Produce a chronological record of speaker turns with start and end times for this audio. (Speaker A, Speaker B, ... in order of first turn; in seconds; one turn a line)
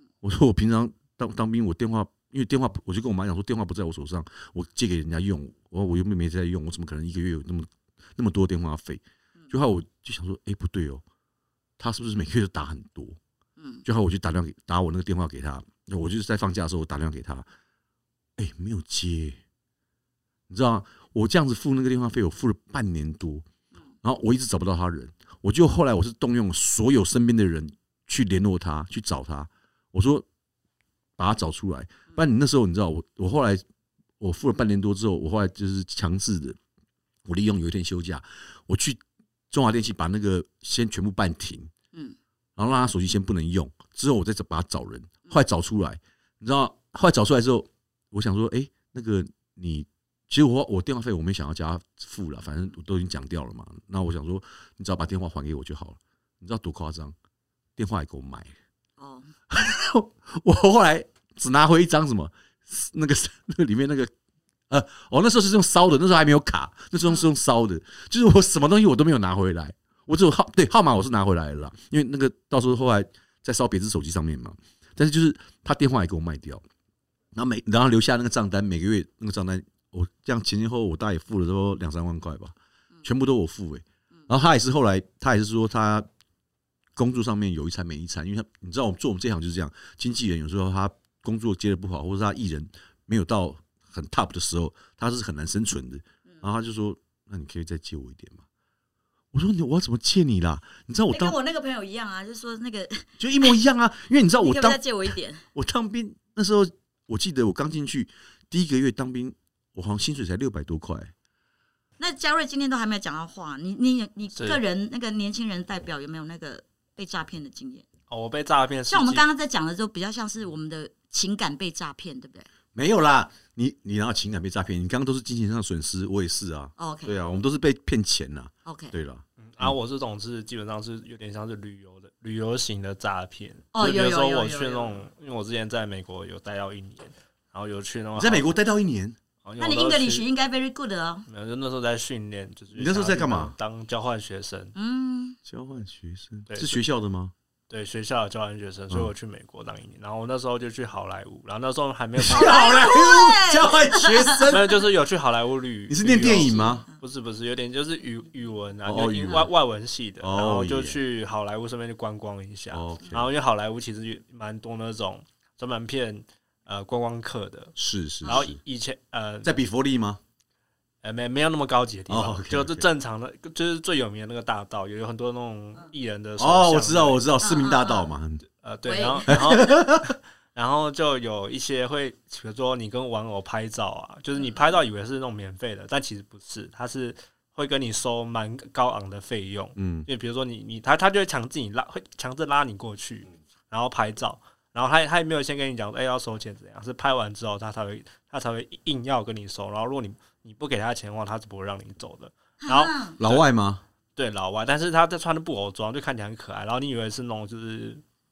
Speaker A: 0.2-11.0
Speaker A: 11.8-13.2
Speaker B: 13.6-13.8
Speaker A: 13.8-17.4
Speaker A: 18.4-19.4
Speaker A: 20.5-23.4
Speaker A: 24.0-30.2
Speaker A: 31.2-33.6
Speaker A: 34.2-36.6
Speaker A: 37.2-39.0
Speaker A: 39.5-41.7
Speaker A: 42.6-57.1
Speaker A: 57.8-58.5
Speaker B: 59.0-59.3
Speaker A: 59.5-64.1
Speaker A: 64.7-76.6
Speaker A: 77.3-86.0
Speaker A: 87.0-98.4
Speaker A: 99.3-101.3
Speaker B: 101.1-103.5
Speaker A: 103.2-111.1
Speaker B: 104.4-105.4
Speaker B: 112.0-117.8
Speaker C: 118.1-119.2
Speaker B: 118.9-122.5
Speaker A: 122.7-129.8
Speaker B: 126.8-127.1
Speaker B: 128.6-128.9
Speaker C: 129.4-138.4
Speaker B: 133.7-135.0
Speaker A: 138.2-139.2
Speaker C: 139.4-140.2
Speaker B: 139.6-141.2
Speaker C: 141.3-144.7
Speaker A: 142.7-143.5
Speaker B: 144.7-145.4
Speaker A: 145.4-147.3
Speaker C: 146.5-146.8
Speaker C: 147.7-152.7
Speaker A: 152.2-154.8
Speaker B: 152.3-154.5
Speaker C: 154.5-167.7
Speaker A: 155.9-156.8
Speaker A: 158.8-159.5
Speaker A: 160.2-161.0
Speaker A: 162.7-163.3
Speaker A: 167.8-168.6
Speaker C: 168.2-169.5
Speaker A: 169.4-170.2
Speaker C: 171.0-177.2
Speaker A: 172.1-172.9
Speaker A: 176.4-178.4
Speaker B: 177.4-178.1
Speaker C: 178.6-203.4
Speaker B: 178.8-179.6
Speaker A: 179.3-180.2
Speaker A: 189.8-190.1
Speaker B: 202.6-203.2
Speaker A: 203.2-203.8
Speaker C: 204.2-208.0